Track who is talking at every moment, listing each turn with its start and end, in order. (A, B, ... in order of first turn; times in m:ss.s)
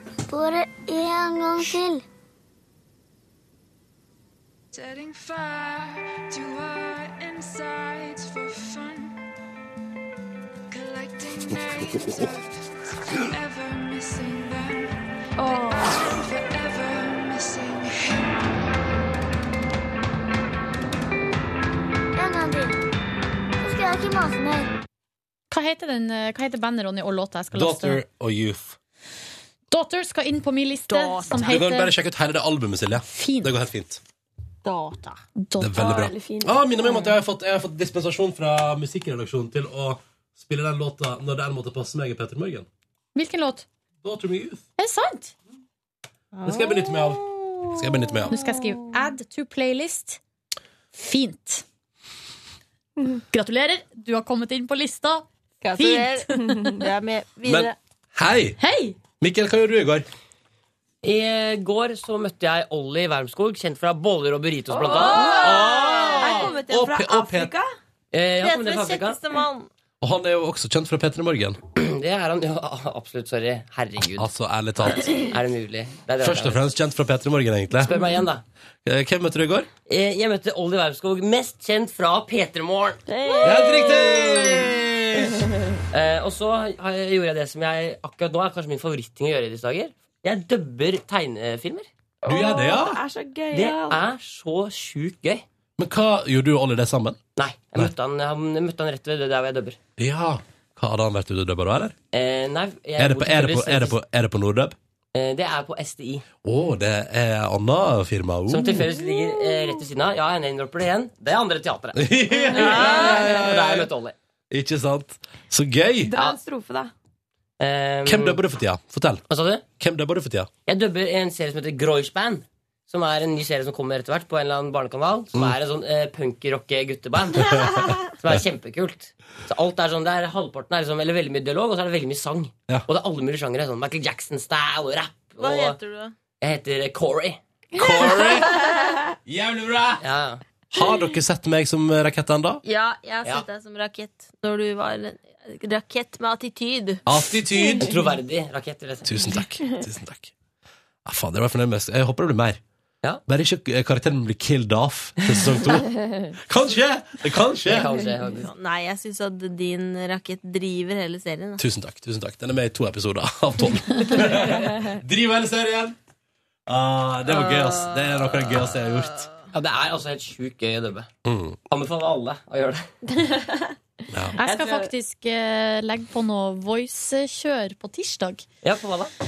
0:00.3-0:02.0 A
0:04.7-0:09.1 B
0:10.7-0:15.0 B
0:15.4-0:16.0 C
0:15.5-0:18.4 B
0:22.2-0:22.8 A
0:23.6-0:24.7 A
0:25.5-0:28.0 D
0:27.5-0:28.8 E
0:29.7-0:31.9 D
0:31.4-0:34.0 E
0:33.1-0:33.6 D
0:34.7-0:35.2 F
0:35.4-0:36.0 D
0:35.6-0:42.7 E
0:35.7-0:37.1 C
0:43.1-0:43.6 D
0:44.0-0:44.6 E
0:44.8-0:45.3 D
0:46.3-0:47.2 F
0:46.4-0:48.4 E
0:48.3-0:50.2 D
0:50.9-0:51.6 D
0:53.3-0:55.2 D
0:55.6-0:57.7 F
0:55.8-0:56.8 D
0:56.4-0:56.8 C
0:57.4-0:58.6 E
0:58.6-0:59.0 D
0:59.2-1:00.1 E
1:01.0-1:05.8 G
1:04.7-1:07.7 C
1:05.3-1:07.5 E
1:08.1-1:09.2 G
1:08.4-1:09.7 F
1:10.0-1:11.6 E
1:11.7-1:14.3 G
1:14.2-1:15.2 E
1:14.8-1:16.7 G
1:16.2-1:17.9 E
1:17.8-1:18.4 G
1:18.8-1:19.7 E
1:19.8-1:23.0 G
1:23.1-1:24.7 C
1:23.4-1:25.4 E
1:25.9-1:31.9 G
1:32.2-1:34.0 C
1:32.3-1:33.0 E
1:33.5-1:35.4 G
1:35.8-1:37.2 E
1:37.4-1:39.8 G
1:40.0-1:42.0 E
1:42.1-1:44.0 G
1:43.0-1:44.8 E
1:45.1-1:46.2 G
1:46.4-1:48.8 E
1:48.5-1:54.1 G
1:52.0-1:53.9 E
1:52.5-1:52.9 C
1:54.5-1:56.1 E
1:56.1-1:56.9 C
1:56.1-1:56.4 G
1:57.6-1:58.4 G
1:58.0-1:59.2 E
1:59.3-1:59.6 G
1:59.8-2:00.5 E
2:00.6-2:15.8 G
2:15.4-2:16.2 F
2:16.4-2:17.4 G
2:17.7-2:18.6 E
2:17.8-2:18.4 C
2:19.2-2:20.0 E
2:20.0-2:20.4 G
2:20.7-2:22.6 E
2:22.6-2:27.0 F
2:27.0-2:28.0 E
2:27.8-2:29.4 G
2:29.0-2:30.3 E
2:31.0-2:32.6 E
2:33.3-2:37.9 E
2:37.6-2:38.5 G
2:38.3-2:41.6 F
2:41.6-2:46.0 E
2:46.7-2:49.3 E
2:47.5-2:47.9 F
2:49.5-2:51.1 G
2:51.2-2:51.6 E
2:51.7-2:52.9 G
2:53.2-2:53.7 C
2:54.1-2:54.4 E
2:54.4-2:58.4 D
2:54.4-2:54.9 C
2:58.6-2:59.1 G